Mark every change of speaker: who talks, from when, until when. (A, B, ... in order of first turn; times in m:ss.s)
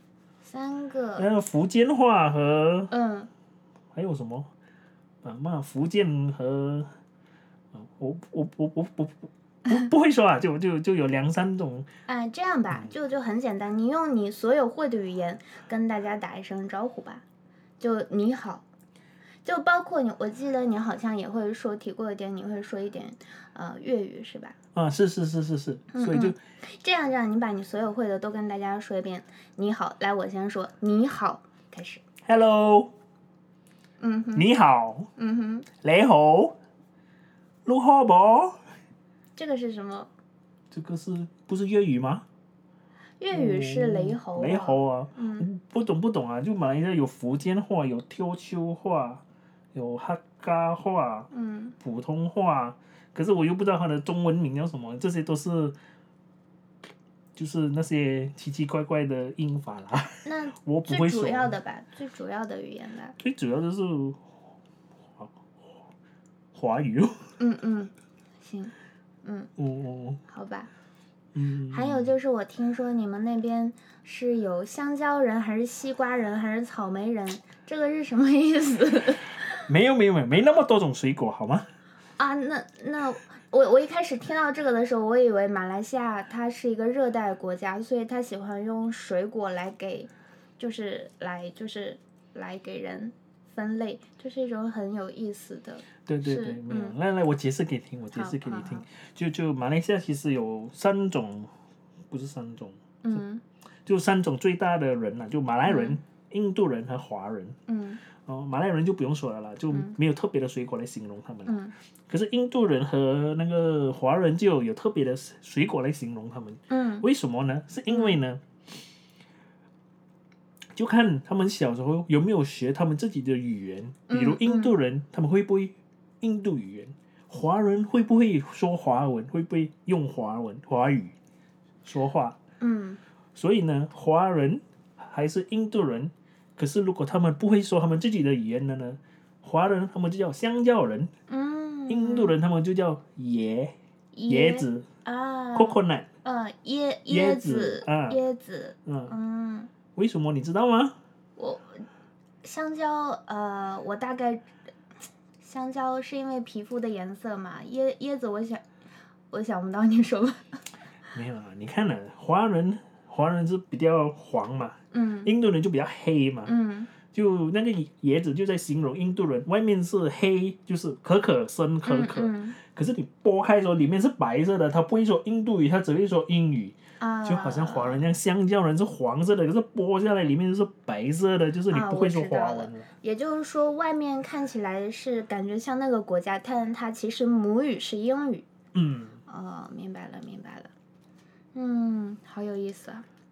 0:00.4-0:01.3 A
0:01.2-0:02.9 B
0:02.9-0:03.3 A
0:03.9-0:04.5 B
0:05.2-0:06.9 B
0:07.7-0:11.9 B
0:12.1-0:17.2 A
0:17.8-0:18.6 A
0:19.4-0:24.6 A
0:24.7-0:26.4 B
0:25.9-0:32.0 A
0:32.2-0:32.9 B
0:34.0-0:34.5 A
0:34.3-0:35.1 B
0:35.2-0:35.7 A
0:35.7-0:36.6 B
0:37.6-0:38.6 B
0:39.4-0:40.1 A
0:40.7-0:42.2 B
0:43.2-0:45.5 A
0:43.3-0:51.3 B
0:51.3-0:51.8 A
0:51.8-0:55.8 B
0:57.4-1:01.5 B
1:00.2-1:03.2 A
1:03.2-1:04.2 B
1:05.2-1:05.9 B
1:06.5-1:07.3 B
1:07.4-1:07.9 A
1:08.4-1:08.7 A
1:09.2-1:09.5 A
1:09.6-1:10.2 B
1:10.3-1:10.7 A
1:11.3-1:12.2 B
1:11.7-1:19.6 A
1:19.7-1:21.7 B
1:22.2-1:37.0 A
1:36.0-1:41.5 B
1:38.1-1:38.8 A
1:42.1-1:43.2 B
1:43.0-1:43.4 A
1:43.8-1:47.6 B
1:45.6-1:46.0 A
1:47.7-1:48.0 A
1:48.2-1:58.4 B
1:51.4-1:51.7 A
1:56.7-1:57.1 A
1:57.9-1:58.2 A
2:00.7-2:11.1 B
2:04.1-2:04.7 A
2:11.8-2:12.4 B
2:12.6-2:13.0 A
2:13.3-2:21.1 B
2:21.3-2:22.3 A
2:21.9-2:23.7 B
2:24.1-2:29.7 A
2:24.3-2:24.9 B
2:25.5-2:26.1 B
2:27.1-2:28.2 B
2:28.8-2:29.1 B
2:29.9-2:31.0 B
2:31.4-2:31.8 A
2:32.4-2:34.4 A
2:35.4-2:38.6 A
2:39.3-2:40.6 A
2:41.1-2:46.5 B
2:44.9-2:45.3 A
2:46.4-2:46.9 A
2:47.1-3:02.9 B
2:51.8-2:52.6 A
2:57.0-2:58.0 A
3:01.7-3:08.5 A
3:08.7-3:09.2 B
3:09.3-3:10.7 A
3:11.5-3:13.0 A